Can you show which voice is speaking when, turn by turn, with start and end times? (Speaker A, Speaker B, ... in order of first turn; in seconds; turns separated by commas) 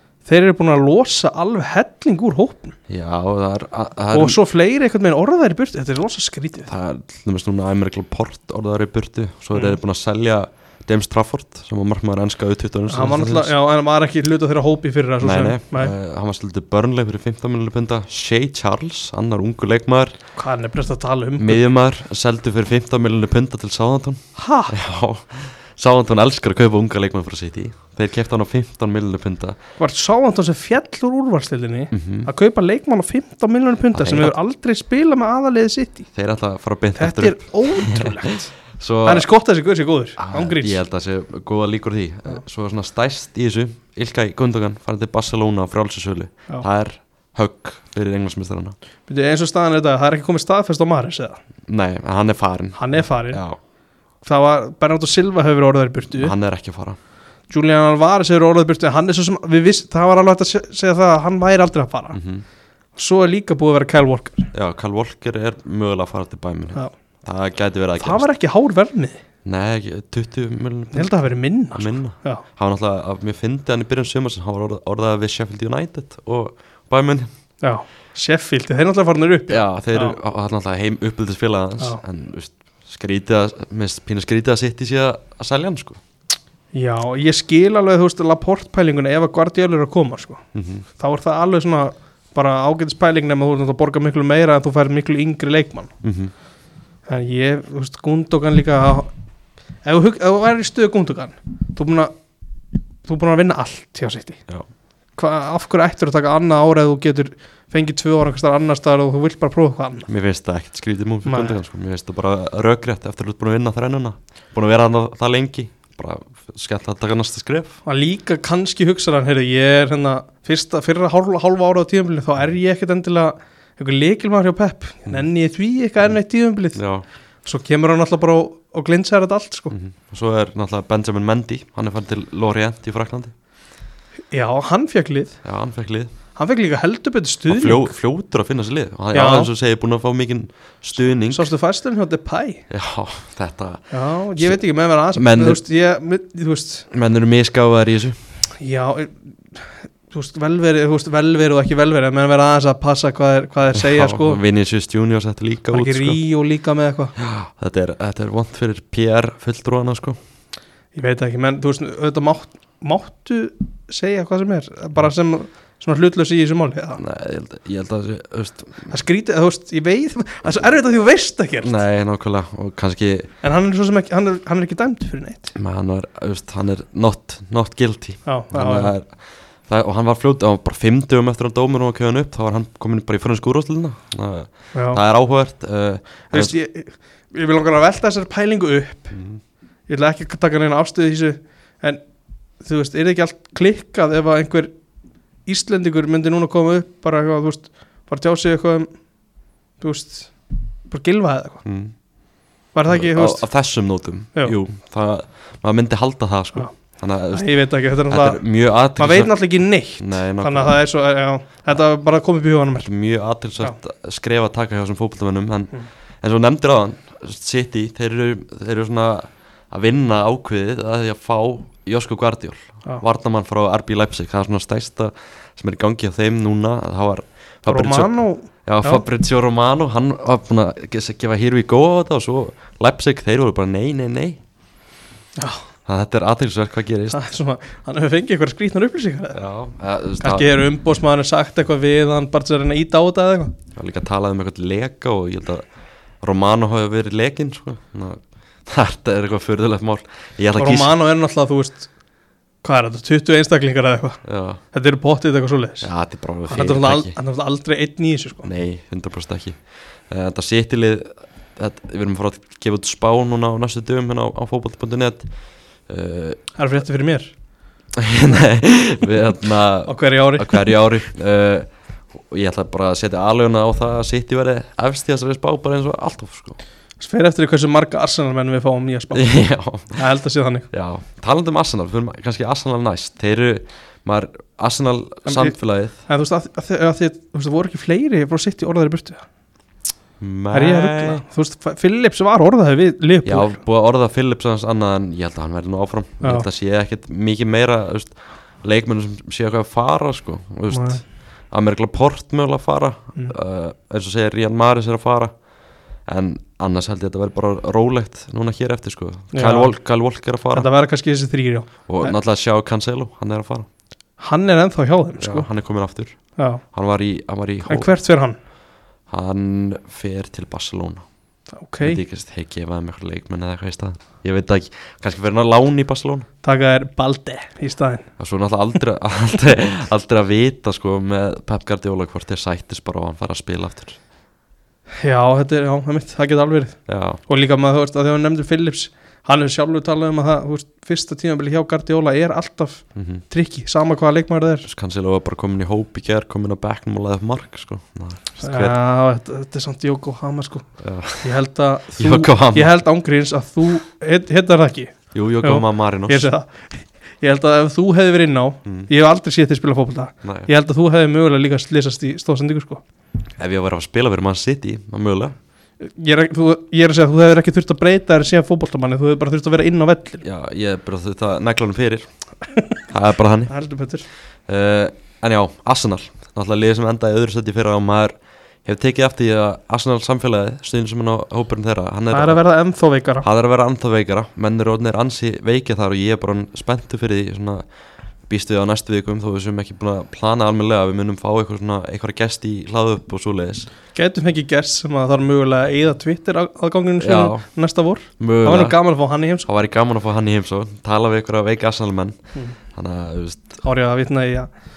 Speaker A: 0.2-2.8, Speaker B: 2.9-4.4, Speaker A: 4.1-6.7, Speaker B: 6.7-13.5, Speaker A: 12.9-15.9, Speaker B: 15.2-20.2, Speaker A: 20.4-21.6, Speaker B: 21.4-29.6, Speaker A: 24.4-24.8, Speaker A: 29.8-36.1, Speaker B: 31.9-32.3, Speaker B: 33.9-34.4, Speaker B: 36.1-39.3, Speaker A: 37.0-38.5, Speaker A: 39.0-40.8, Speaker B: 40.2-48.8, Speaker A: 49.1-51.4, Speaker B: 51.7-53.6, Speaker A: 52.8-53.4, Speaker A: 54.2-56.3, Speaker B: 56.2-57.0, Speaker A: 57.5-62.2, Speaker B: 62.1-62.5, Speaker A: 63.0-64.5, Speaker B: 64.5-68.3, Speaker A: 68.0-69.2, Speaker B: 69.5-71.2, Speaker A: 70.9-72.4, Speaker B: 71.7-77.3, Speaker A: 77.6-80.2, Speaker B: 79.5-86.0, Speaker A: 86.7-90.4, Speaker B: 90.5-90.8, Speaker A: 91.0-95.9, Speaker B: 96.0-96.3, Speaker A: 97.1-99.1, Speaker A: 99.8-102.1, Speaker A: 103.0-104.4, Speaker A: 105.2-110.1, Speaker B: 110.1-117.8, Speaker A: 111.2-111.6, Speaker A: 117.8-126.8, Speaker B: 126.8-127.1, Speaker A: 127.4-129.8, Speaker B: 129.7-133.3, Speaker A: 134.3-135.4, Speaker B: 135.4-136.1, Speaker A: 136.3-137.9, Speaker B: 137.5-141.5, Speaker A: 139.1-139.5, Speaker A: 141.3-142.6, Speaker B: 142.7-144.6, Speaker A: 143.9-146.9, Speaker B: 145.1-145.6, Speaker B: 146.9-148.2, Speaker A: 148.6-154.4, Speaker B: 153.8-156.2, Speaker A: 155.7-157.1, Speaker B: 157.2-160.2, Speaker A: 160.9-167.0, Speaker B: 167.0-168.9, Speaker A: 168.9-171.7, Speaker B: 171.6-173.3, Speaker A: 173.4-175.5, Speaker B: 175.6-186.6, Speaker A: 178.3-178.9, Speaker A: 184.7-185.0, Speaker A: 186.3-189.2, Speaker B: 189.1-189.4, Speaker A: 189.9-192.0, Speaker A: 192.6-194.7, Speaker A: 195.5-198.9, Speaker A: 199.8-200.3, Speaker A: 200.9-201.6, Speaker B: 201.7-201.9, Speaker A: 202.7-203.4, Speaker B: 202.9-207.5, Speaker A: 207.3-208.4, Speaker B: 208.1-209.3, Speaker A: 209.0-212.9, Speaker B: 210.0-210.8, Speaker B: 212.8-228.1, Speaker A: 227.7-229.0, Speaker B: 228.7-234.4, Speaker A: 235.4-235.7, Speaker B: 235.8-237.2, Speaker A: 237.1-239.4, Speaker B: 239.3-240.5, Speaker A: 240.2-243.5, Speaker B: 243.7-245.6, Speaker B: 246.2-250.9, Speaker A: 250.6-251.9, Speaker A: 252.6-255.9, Speaker B: 254.2-254.6, Speaker B: 255.8-257.1, Speaker A: 256.5-258.5, Speaker B: 258.4-265.3, Speaker B: 265.9-266.4, Speaker A: 266.6-267.3, Speaker B: 267.9-276.6, Speaker A: 269.9-270.8, Speaker A: 277.0-279.4, Speaker B: 279.1-280.0, Speaker A: 280.0-280.7, Speaker B: 280.7-286.0, Speaker A: 285.2-285.6, Speaker A: 286.1-289.2, Speaker B: 290.2-291.2, Speaker A: 290.5-293.6, Speaker B: 293.2-305.3, Speaker A: 300.7-301.0, Speaker B: 306.1-310.7, Speaker A: 309.3-309.7, Speaker A: 310.5-312.2, Speaker B: 311.9-313.7, Speaker A: 314.2-315.5, Speaker B: 315.2-316.2, Speaker A: 316.4-316.6, Speaker B: 316.7-317.9, Speaker A: 317.7-318.4, Speaker B: 319.1-321.1, Speaker A: 321.6-322.0, Speaker B: 321.8-326.3, Speaker A: 326.4-328.1, Speaker B: 328.2-334.0, Speaker A: 335.0-344.7, Speaker B: 336.9-337.2, Speaker B: 342.9-343.2, Speaker B: 344.6-348.8, Speaker A: 348.4-350.7, Speaker B: 350.8-351.3, Speaker A: 351.2-362.8, Speaker B: 352.0-352.7, Speaker B: 355.1-356.3, Speaker B: 358.6-358.9, Speaker B: 360.2-360.5, Speaker B: 363.4-365.3, Speaker A: 365.8-370.2, Speaker B: 370.2-372.1, Speaker A: 372.5-372.8, Speaker B: 372.9-373.5, Speaker A: 373.5-374.1, Speaker B: 374.5-378.1, Speaker B: 378.6-382.4, Speaker A: 382.1-383.2, Speaker B: 383.2-387.6, Speaker B: 388.3-393.7, Speaker A: 393.9-399.5, Speaker B: 397.0-397.5, Speaker B: 398.2-398.8, Speaker B: 399.4-402.2, Speaker B: 402.7-403.6, Speaker A: 403.6-404.5